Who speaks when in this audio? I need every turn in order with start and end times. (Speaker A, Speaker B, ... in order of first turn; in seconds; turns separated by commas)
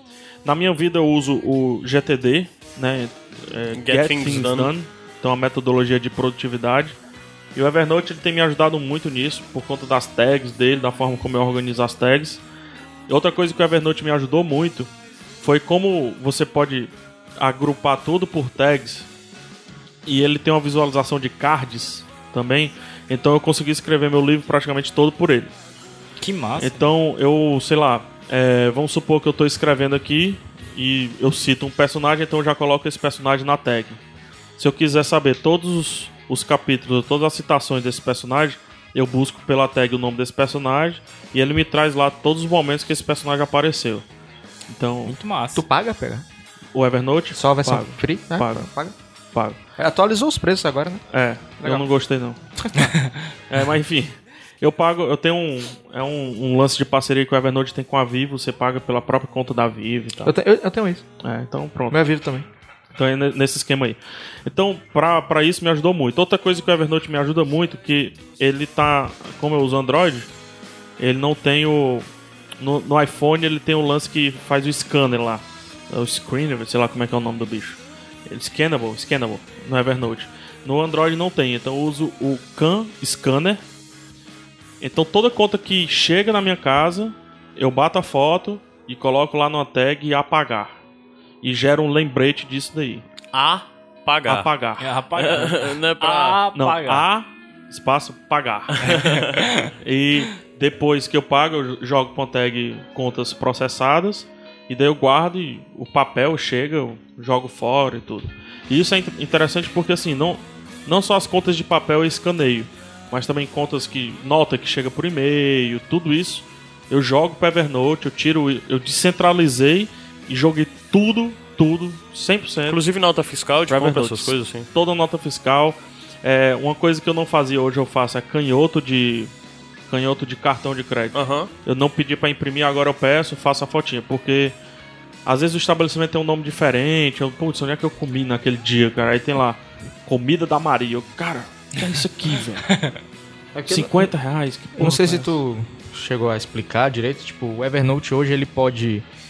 Speaker A: 0.4-7.0, Speaker B: 3.7-4.7, Speaker A: 7.5-12.4, Speaker A: 13.1-19.1, Speaker A: 20.1-25.5, Speaker C: 26.2-26.8, Speaker A: 26.6-34.0, Speaker A: 34.6-44.0, Speaker A: 44.7-45.2, Speaker C: 45.0-45.6, Speaker D: 45.5-46.2, Speaker A: 46.7-48.7, Speaker D: 47.4-49.0, Speaker A: 49.3-49.6, Speaker D: 49.8-51.0, Speaker A: 51.1-52.4, Speaker D: 52.6-52.9, Speaker C: 52.8-53.1, Speaker A: 53.5-60.4, Speaker D: 60.2-61.0, Speaker A: 61.2-62.0, Speaker D: 61.9-62.5, Speaker A: 63.0-70.3, Speaker A: 71.0-72.1, Speaker A: 72.6-83.6, Speaker A: 84.8-90.8, Speaker A: 91.4-93.0, Speaker B: 93.3-94.5, Speaker A: 94.3-94.9, Speaker C: 94.8-97.1, Speaker B: 95.2-96.4, Speaker A: 96.5-122.8, Speaker C: 98.8-99.7, Speaker B: 122.7-124.7, Speaker A: 123.7-129.3, Speaker A: 129.9-134.6, Speaker B: 131.1-131.5, Speaker A: 135.3-142.8, Speaker D: 143.5-144.1, Speaker A: 143.7-145.4, Speaker D: 144.8-149.1